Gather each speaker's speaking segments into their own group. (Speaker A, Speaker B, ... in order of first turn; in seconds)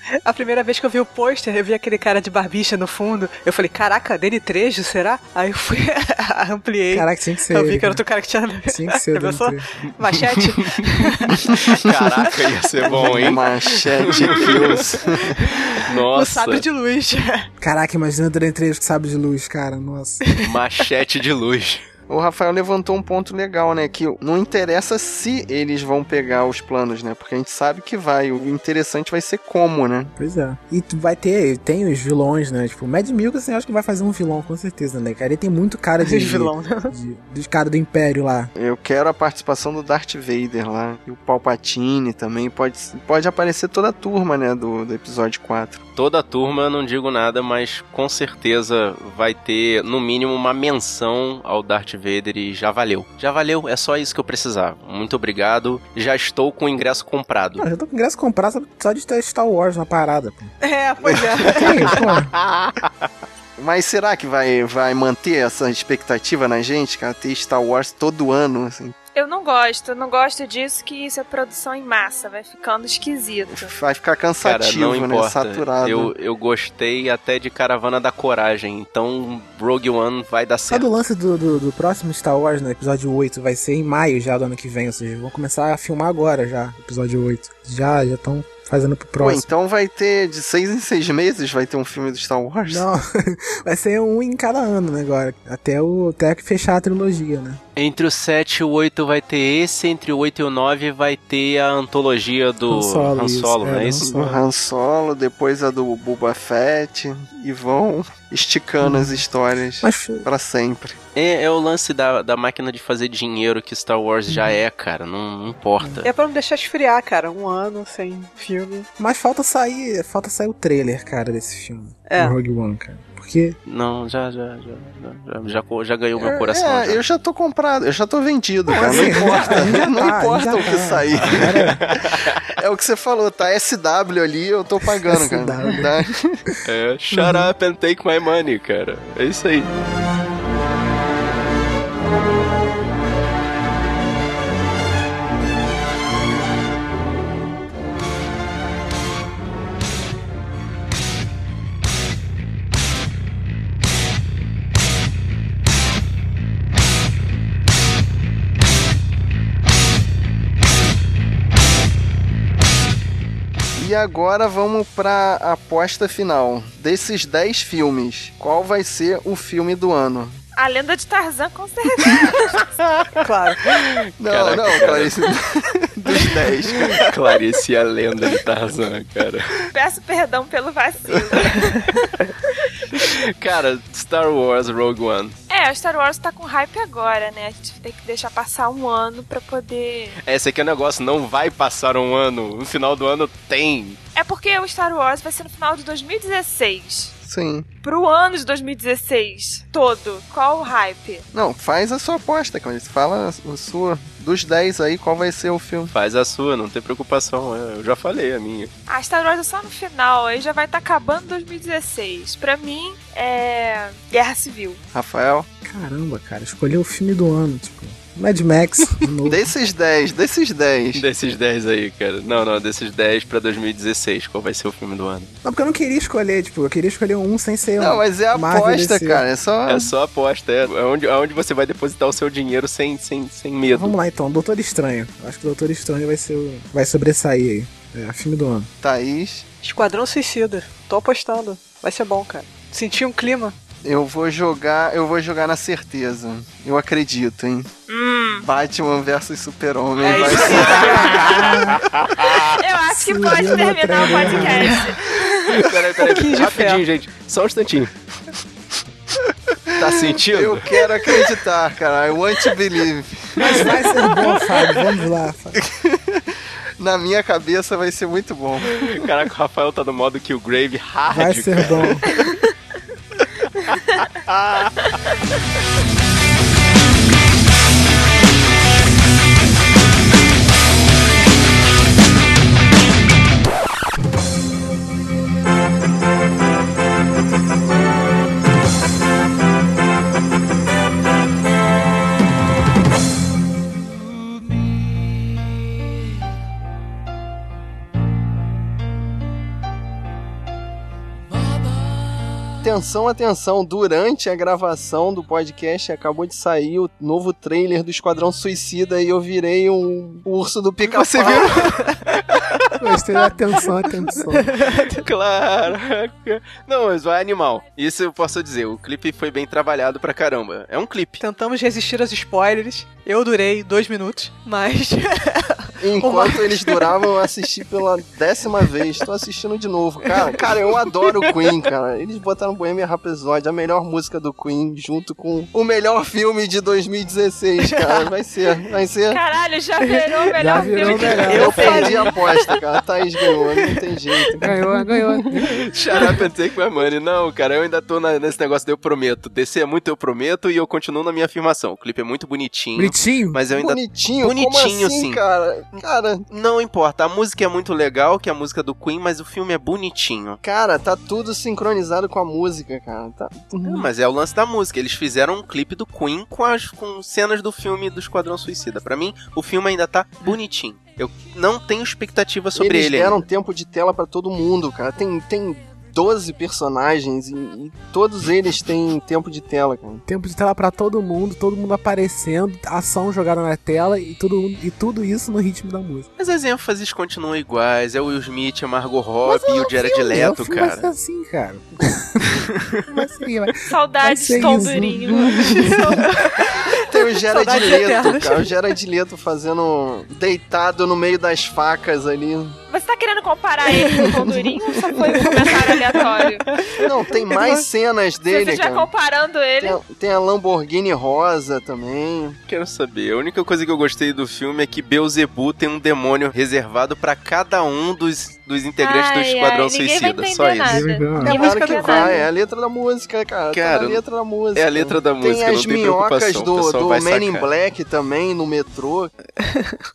Speaker A: 0.2-11.5, 16.0-17.5, 20.2-20.5, 36.0-36.9, 60.6-62.0, 116.0-118.9, 122.1-122.3, 173.2-173.7, 239.6-243.5, 250.0-251.4, 254.4-254.8, 256.0-256.8, 310.9-312.1, 314.2-315.1, 321.2-326.9, 330.1-331.3, 337.7-338.1, 339.8-342.3, 343.3-343.7, 395.4-398.5, 405.3-405.8, 407.3-407.5, 421.2-422.3, 429.4-429.8
Speaker B: 6.9-8.0, 8.7-9.7, 17.6-20.2, 30.1-38.5, 57.6-60.5, 61.5-62.3, 80.7-89.5, 92.7-97.6, 102.7-104.4, 108.8-109.2, 109.8-110.2, 114.3-114.6, 119.0-123.5, 128.7-131.9, 135.0-136.6, 137.1-137.5, 215.6-219.4, 225.4-229.2, 233.7-238.7, 251.2-251.8, 252.8-254.8, 263.4-265.6, 271.1-272.1, 312.8-314.5, 340.4-341.7, 344.4-345.6, 352.8-353.4, 380.0-386.1, 389.2-396.0, 420.6-421.3
Speaker C: 11.4-11.7, 12.9-15.4, 22.1-30.1, 38.5-45.8, 63.6-69.0, 73.5-76.1, 89.2-92.8, 104.0-111.0, 126.2-131.6, 132.6-136.4, 163.8-170.4, 174.2-177.1, 197.2-197.7, 201.3-205.9, 214.9-215.5, 219.2-221.0, 227.8-229.9, 238.8-239.4, 243.8-247.7, 248.4-251.2, 259.8-264.2, 265.6-269.0, 302.6-311.8, 325.8-339.2, 340.9-345.1, 353.5-356.2, 360.4-363.9, 372.6-380.0, 396.9-402.6, 406.8-408.9, 409.6-412.4, 421.2-429.1
Speaker D: 11.7-16.6, 20.4-21.8, 46.0-57.6, 62.4-62.9, 74.4-80.9, 97.8-104.0, 111.1-116.1, 123.7-127.0, 129.3-129.6, 131.2-132.4, 136.6-139.7, 172.8-175.2, 176.9-179.7, 182.9-185.3, 190.2-194.0, 205.9-208.7, 220.9-225.3, 229.7-233.9, 250.4-252.4, 255.6-257.9, 259.8-261.2, 268.7-272.1, 273.8-274.9, 314.9-321.2, 345.6-355.2, 356.3-360.4, 363.6-373.2, 386.2-390.9, 412.5-420.9, 423.5-424.0, 424.5-427.5
Speaker E: 69.1-73.7, 170.6-172.6, 179.7-182.1, 185.5-190.2, 194.1-197.1, 197.8-201.3, 208.9-214.8, 247.9-248.5, 252.6-255.6, 339.1-342.1, 393.7-395.4, 402.7-406.4, 408.3-409.8, 418.8-422.2